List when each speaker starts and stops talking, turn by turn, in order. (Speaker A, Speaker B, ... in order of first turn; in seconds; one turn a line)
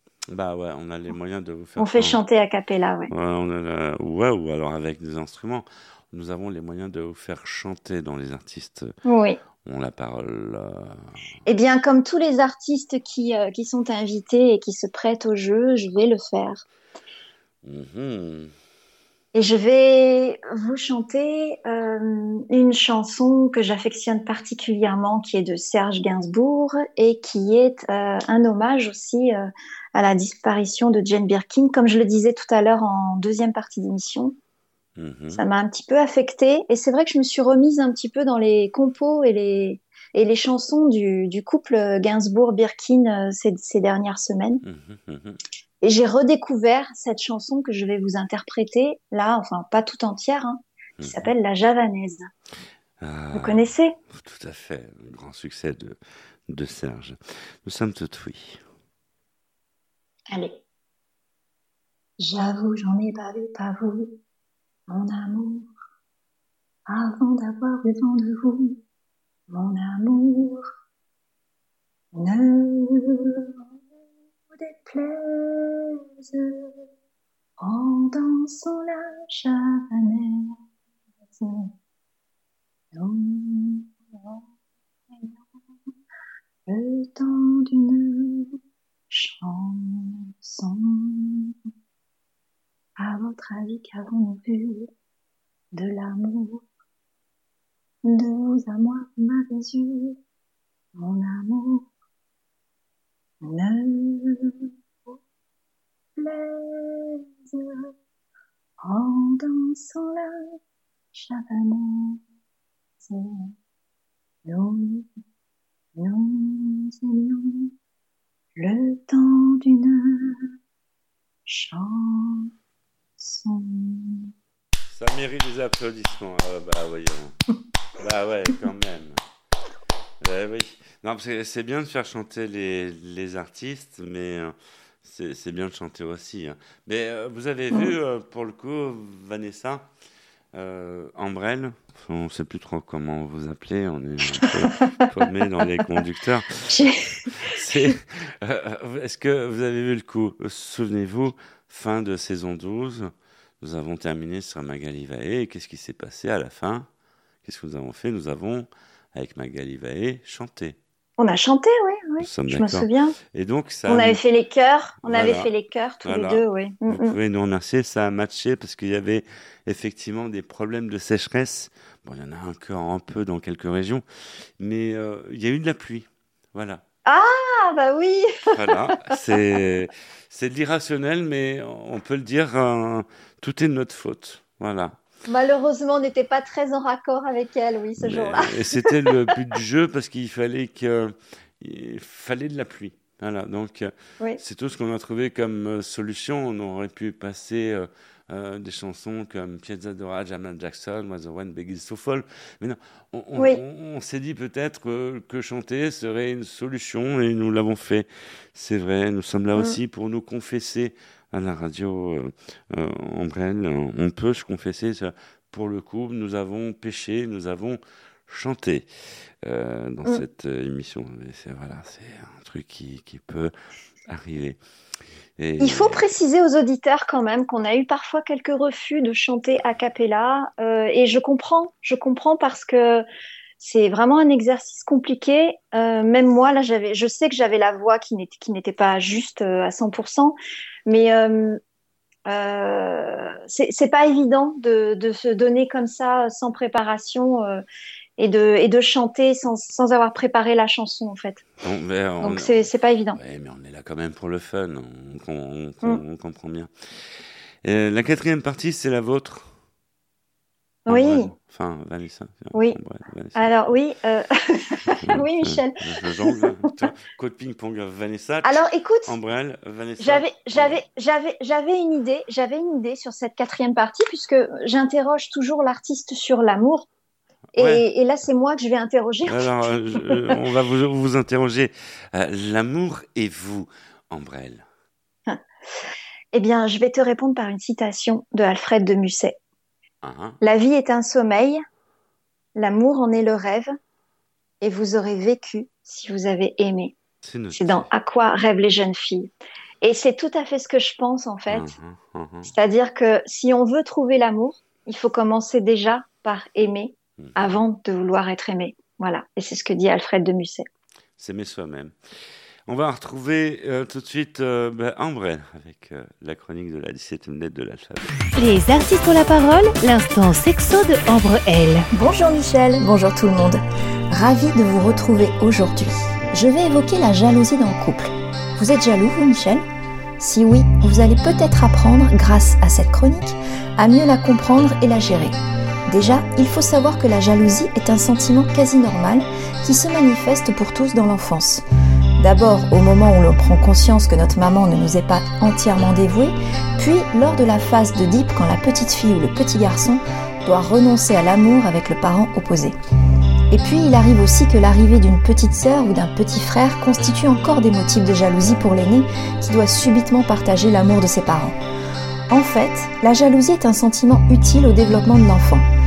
Speaker A: 0.3-2.2
Speaker B: 1.8-3.1
Speaker A: 3.1-8.9
Speaker B: 9.1-9.4
Speaker A: 9.6-11.0
Speaker B: 11.5-16.6
Speaker A: 17.6-18.5
Speaker B: 19.3-34.4
Speaker A: 35.0-35.4
Speaker B: 35.3-44.6
Speaker A: 44.6-45.4
Speaker B: 45.8-52.3
Speaker A: 51.0-51.3
Speaker A: 53.0-56.0
Speaker B: 53.3-54.0
Speaker A: 56.5-58.6
Speaker B: 60.3-60.6
Speaker B: 62.2-64.2
Speaker B: 64.9-65.7
Speaker B: 66.9-68.8
Speaker B: 69.5-70.7
Speaker B: 72.1-73.5
Speaker B: 74.6-76.8
Speaker B: 77.6-80.6
Speaker B: 81.4-81.7
Speaker B: 83.0-84.4
Speaker B: 86.7-88.6
Speaker B: 89.1-91.6
Speaker B: 93.0-94.9
Speaker B: 95.8-96.6
Speaker B: 98.0-100.2
Speaker B: 101.0-101.8
Speaker B: 103.5-104.7
Speaker B: 106.2-107.9
Speaker B: 108.9-110.6
Speaker B: 111.2-112.2
Speaker B: 113.1-113.5
Speaker B: 114.5-115.1
Speaker B: 116.0-117.7
Speaker B: 118.6-120.5
Speaker B: 121.5-122.5
Speaker B: 123.2-124.3
Speaker A: 124.9-127.3
Speaker A: 128.0-129.2
Speaker A: 130.2-139.9
Speaker A: 140.5-146.8
Speaker B: 144.4-145.1
Speaker B: 146.7-147.9
Speaker A: 147.4-156.9
Speaker A: 157.4-160.8
Speaker B: 161.2-163.2
Speaker A: 162.2-164.2
Speaker B: 163.9-167.2
Speaker A: 165.0-165.5
Speaker A: 166.0-174.0
Speaker A: 174.6-176.8
Speaker B: 177.1-179.4
Speaker A: 178.5-185.0
Speaker B: 185.3-189.1
Speaker A: 188.0-218.9
Speaker A: 219.4-223.5
Speaker A: 224.1-224.6
Speaker A: 225.4-226.1
Speaker B: 225.6-233.1
Speaker B: 233.6-241.6
Speaker B: 242.3-247.6
Speaker B: 248.2-251.5
Speaker A: 251.6-256.7
Speaker B: 252.2-253.2
Speaker A: 257.6-259.5
Speaker B: 260.9-261.3
Speaker A: 260.9-263.5
Speaker B: 263.4-266.4
Speaker A: 265.0-270.8
Speaker B: 268.4-269.1
Speaker B: 270.0-276.9
Speaker B: 277.6-280.4
Speaker A: 277.6-277.9
Speaker A: 279.3-284.6
Speaker B: 286.3-289.4
Speaker A: 290.0-290.4
Speaker B: 290.4-291.6
Speaker B: 292.6-293.7
Speaker B: 294.6-297.0
Speaker A: 297.2-297.9
Speaker B: 297.5-301.7
Speaker A: 301.5-302.5
Speaker B: 302.5-310.7
Speaker A: 307.2-307.6
Speaker A: 311.2-311.9
Speaker A: 312.7-318.3
Speaker C: 318.4-321.9
Speaker D: 322.0-329.6
Speaker D: 330.2-335.4
Speaker D: 335.9-341.6
Speaker D: 342.2-352.8
Speaker D: 353.5-361.6
Speaker D: 362.3-365.7